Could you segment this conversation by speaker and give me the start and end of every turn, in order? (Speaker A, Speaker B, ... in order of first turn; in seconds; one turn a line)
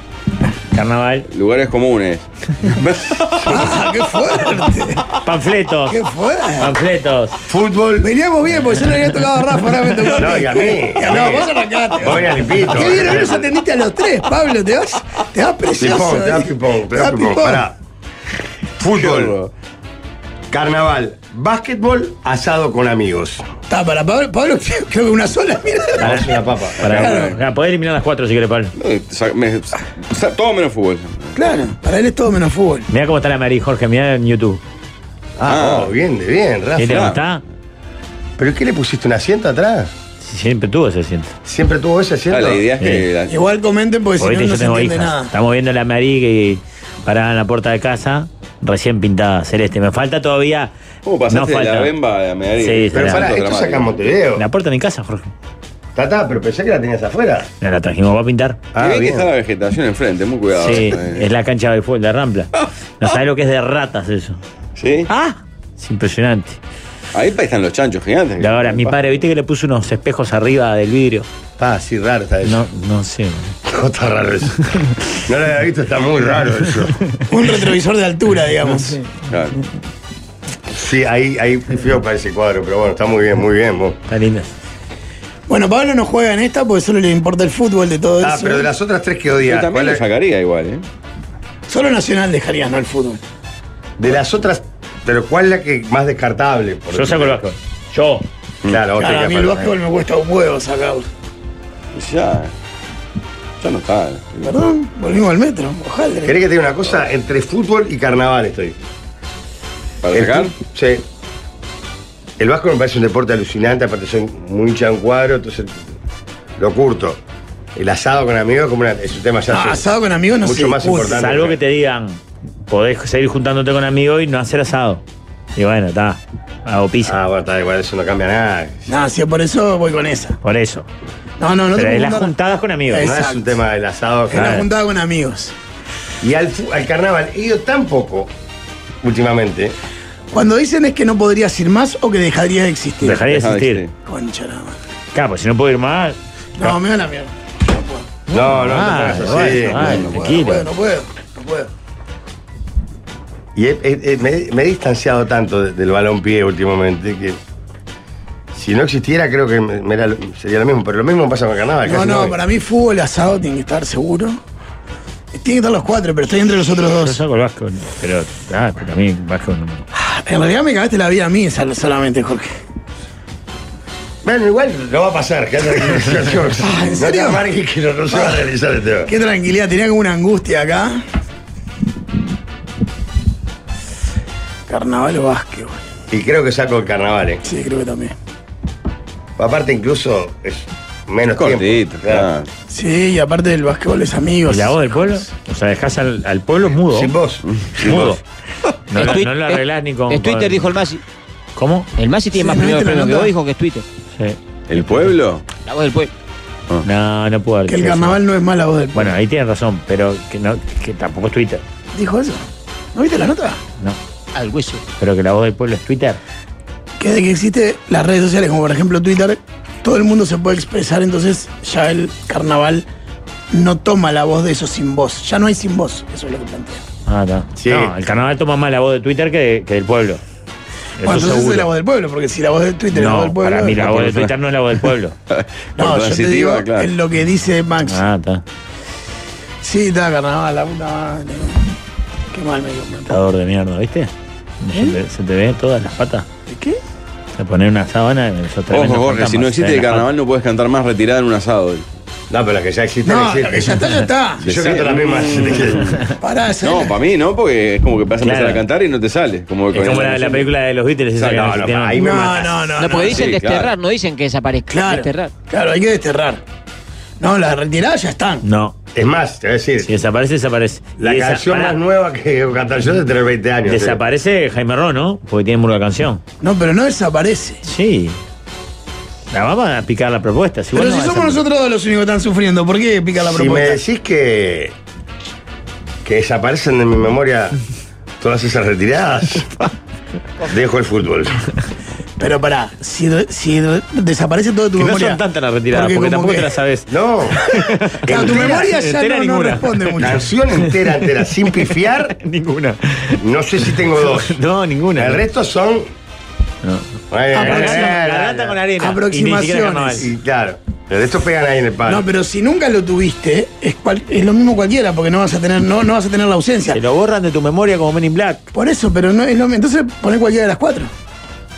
Speaker A: 0.7-1.3
Speaker B: 1.3-3.9
Speaker C: 3.4-5.2
Speaker A: 5.1-6.0
Speaker C: 5.9-6.8
Speaker A: 6.6-7.4
Speaker D: 7.4-8.1
Speaker C: 8.0-17.6
Speaker D: 10.1-13.5
Speaker B: 13.0-13.2
Speaker D: 15.8-17.8
Speaker D: 18.8-19.4
Speaker B: 18.8-19.5
Speaker D: 20.5-23.4
Speaker C: 23.7-26.1
Speaker D: 25.9-26.9
Speaker A: 26.0-28.7
Speaker B: 26.8-27.4
Speaker C: 26.9-27.3
Speaker B: 28.8-31.3
Speaker C: 31.3-32.9
Speaker A: 32.9-34.6
Speaker D: 35.4-37.0
Speaker B: 35.4-35.9
Speaker A: 36.8-37.4
Speaker B: 36.8-37.2
Speaker D: 38.4-39.9
Speaker A: 40.2-41.4
Speaker D: 41.4-42.6
Speaker B: 42.3-43.4
Speaker C: 43.3-45.3
Speaker A: 44.2-50.7
Speaker B: 51.0-54.0
Speaker A: 51.3-51.9
Speaker A: 52.6-53.3
Speaker D: 52.9-54.5
Speaker A: 54.4-55.3
Speaker D: 55.9-57.5
Speaker A: 57.6-58.6
Speaker D: 58.7-59.3
Speaker B: 58.8-61.2
Speaker A: 60.5-62.5
Speaker A: 63.0-64.4
Speaker B: 64.8-65.1
Speaker A: 65.1-66.6
Speaker B: 67.1-69.0
Speaker A: 68.4-71.3
Speaker D: 71.6-72.7
Speaker A: 72.4-73.5
Speaker D: 73.6-77.0
Speaker C: 77.3-79.0
Speaker B: 79.3-79.6
Speaker D: 80.7-84.0
Speaker A: 84.1-84.5
Speaker C: 85.5-88.7
Speaker D: 88.2-90.0
Speaker B: 89.4-90.8
Speaker C: 91.7-93.2
Speaker D: 94.0-97.4
Speaker A: 96.9-98.3
Speaker D: 98.6-99.7
Speaker C: 99.0-101.0
Speaker A: 99.0-99.7
Speaker B: 101.9-102.5
Speaker B: 103.6-104.5
Speaker C: 104.4-106.3
Speaker D: 106.2-108.8
Speaker B: 110.0-110.5
Speaker D: 110.1-111.0
Speaker D: 112.4-115.8
Speaker D: 116.6-117.2
Speaker D: 117.8-121.6
Speaker C: 119.5-121.3
Speaker A: 121.0-125.0
Speaker A: 125.5-127.2
Speaker D: 127.0-128.9
Speaker C: 128.9-130.4
Speaker A: 130.4-130.9
Speaker C: 131.4-132.3
Speaker A: 131.7-133.1
Speaker C: 132.9-133.6
Speaker D: 133.0-134.6
Speaker C: 134.3-135.5
Speaker A: 134.3-134.7
Speaker D: 136.2-138.3
Speaker D: 139.0-139.7
Speaker C: 140.3-143.3
Speaker A: 143.0-143.8
Speaker B: 143.3-143.9
Speaker C: 144.1-144.8
Speaker A: 145.1-146.8
Speaker C: 146.6-148.1
Speaker A: 148.3-150.7
Speaker D: 148.3-150.2
Speaker C: 149.3-151.7
Speaker D: 153.5-157.4
Speaker D: 158.5-162.4
Speaker C: 161.8-164.4
Speaker C: 165.3-167.2
Speaker A: 166.9-169.8
Speaker C: 169.9-172.5
Speaker D: 174.2-179.1
Speaker C: 176.6-177.4
Speaker C: 179.0-181.0
Speaker C: 184.7-185.8
Speaker D: 186.1-187.4
Speaker C: 187.4-188.2
Speaker D: 189.4-192.3
Speaker B: 191.3-192.5
Speaker C: 192.7-195.2
Speaker A: 194.5-197.1
Speaker D: 196.9-198.1
Speaker B: 197.5-198.2
Speaker A: 197.7-198.2
Speaker A: 198.9-200.7
Speaker E: 198.9-201.0
Speaker A: 201.6-201.9
Speaker E: 202.0-203.8
Speaker C: 202.3-203.3
Speaker A: 204.1-205.1
Speaker B: 204.7-205.4
Speaker E: 205.6-206.1
Speaker A: 206.8-208.2
Speaker C: 207.7-209.1
Speaker A: 208.9-211.6
Speaker C: 211.9-213.6
Speaker E: 214.3-214.8
Speaker A: 215.0-216.2
Speaker C: 217.0-222.8
Speaker C: 223.5-226.8
Speaker A: 227.1-230.2
Speaker D: 227.6-227.9
Speaker A: 231.0-231.7
Speaker C: 231.0-233.8
Speaker A: 232.9-235.1
Speaker B: 233.8-234.3
Speaker B: 235.3-236.9
Speaker C: 235.8-238.0
Speaker A: 237.8-238.4
Speaker C: 239.6-241.7
Speaker C: 242.3-243.2
Speaker A: 243.1-246.2
Speaker C: 244.7-245.0
Speaker C: 246.5-246.8
Speaker A: 247.4-250.1
Speaker B: 248.7-251.8
Speaker D: 252.3-255.9
Speaker C: 253.0-254.4
Speaker B: 254.4-256.0
Speaker A: 255.8-256.1
Speaker C: 256.2-256.9
Speaker B: 256.6-260.5
Speaker A: 258.2-258.6
Speaker A: 259.7-262.0
Speaker B: 261.1-261.5
Speaker D: 261.3-262.8
Speaker C: 261.9-263.3
Speaker E: 262.8-265.3
Speaker B: 262.9-263.7
Speaker C: 264.7-266.4
Speaker C: 267.2-268.4
Speaker A: 268.4-268.8
Speaker D: 268.9-269.9
Speaker A: 269.8-271.8
Speaker D: 271.0-274.0
Speaker A: 273.6-276.2
Speaker C: 276.4-277.6
Speaker A: 277.6-278.2
Speaker A: 279.3-281.4
Speaker C: 280.7-283.8
Speaker D: 283.2-284.7
Speaker D: 286.0-287.6
Speaker D: 288.2-289.5
Speaker D: 290.4-291.4
Speaker C: 292.2-296.5
Speaker A: 294.8-300.9
Speaker D: 296.9-297.4
Speaker C: 297.5-300.2
Speaker D: 298.0-298.7
Speaker D: 300.0-302.1
Speaker A: 301.4-305.2
Speaker D: 303.2-304.4
Speaker D: 304.9-305.9
Speaker A: 306.6-310.1
Speaker D: 307.1-308.6
Speaker C: 307.3-308.0
Speaker C: 308.8-310.1
Speaker D: 310.0-312.1
Speaker C: 311.9-316.8
Speaker A: 316.7-318.5
Speaker C: 318.5-320.9